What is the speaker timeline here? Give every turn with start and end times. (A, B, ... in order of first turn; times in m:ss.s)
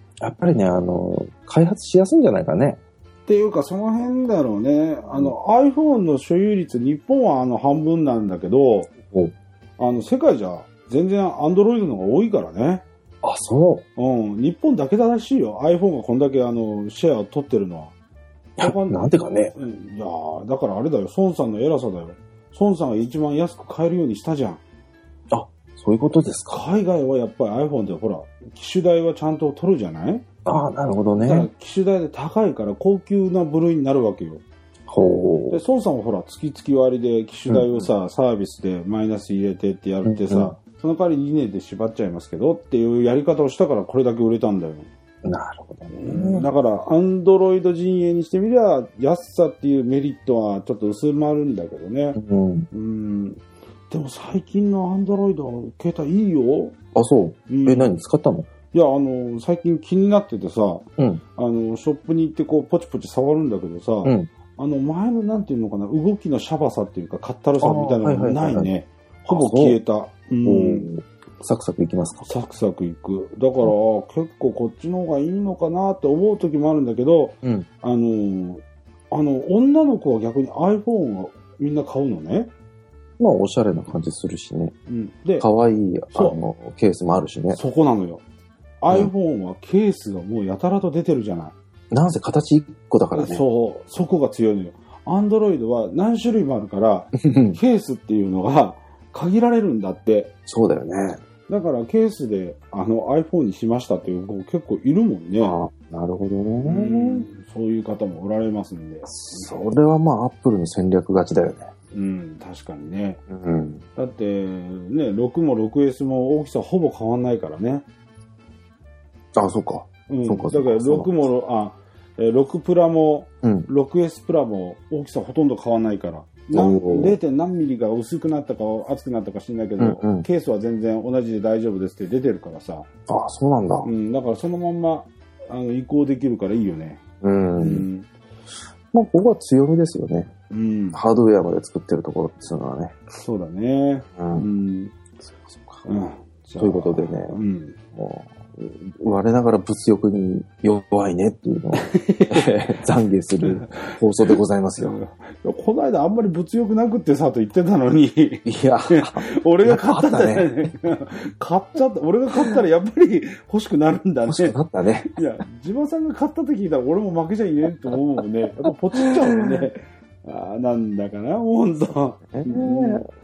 0:00.2-0:02.8 A
0:03.3-0:08.9 B
0:09.0-0:09.3 A
0:09.8-0:12.8 B
0:13.2-0:13.8 A
0:14.0-0:17.9 B
0:18.6-0:19.6 A
0:18.6-0:19.0 B
0:19.6-0:24.6 B
0:25.3-0:26.6 A
0:26.5-0:30.2 B
0:30.4-0:31.5 A
0:31.2-0:34.4 B
0:34.9-0:35.6 A
0:35.5-0:44.9 B
0:37.5-0:37.9 A
0:40.0-0:40.5 A
0:45.2-0:46.5 A
0:46.0-0:52.2 B
0:52.2-0:52.7 A
0:52.7-0:56.8 B
0:57.0-0:58.5 A
0:57.5-0:57.9 B
0:58.7-1:00.9 B
1:01.0-1:01.2 A
1:01.4-1:10.9 B
1:07.6-1:08.7 A
1:09.3-1:09.8 A
1:10.4-1:12.3 A
1:12.2-1:22.5 B
1:23.2-1:24.7 A
1:24.9-1:25.5 B
1:25.4-1:27.6 A
1:26.1-1:26.4 B
1:27.5-1:28.2 B
1:28.8-1:31.6 B
1:31.9-1:33.4 A
1:33.2-1:40.3 B
1:37.2-1:37.6 A
1:40.5-1:41.2 A
1:41.5-1:45.6 B
1:45.4-1:47.3 A
1:46.6-1:49.6 B
1:49.1-1:51.7 A
1:51.9-1:53.2 B
1:53.3-1:53.8 A
1:54.0-1:57.8 B
1:59.4-2:01.3 A
2:00.1-2:12.9 B
2:06.5-2:07.2 A
2:09.8-2:10.3 A
2:13.1-2:13.9 A
2:13.8-2:17.0 B
2:17.2-2:17.9 A
2:17.6-2:18.1 B
2:18.9-2:20.3 A
2:20.5-2:21.0 B
2:20.9-2:23.0 A
2:23.2-2:25.0 B
2:24.2-2:24.5 A
2:25.5-2:25.8 A
2:25.8-2:27.8 B
2:26.6-2:27.4 A
2:28.0-2:35.0 A
2:31.7-2:32.5 B
2:33.4-2:44.6 B
2:38.5-2:40.5 A
2:44.3-2:45.2 A
2:45.1-2:53.0 B
2:52.3-2:53.1 A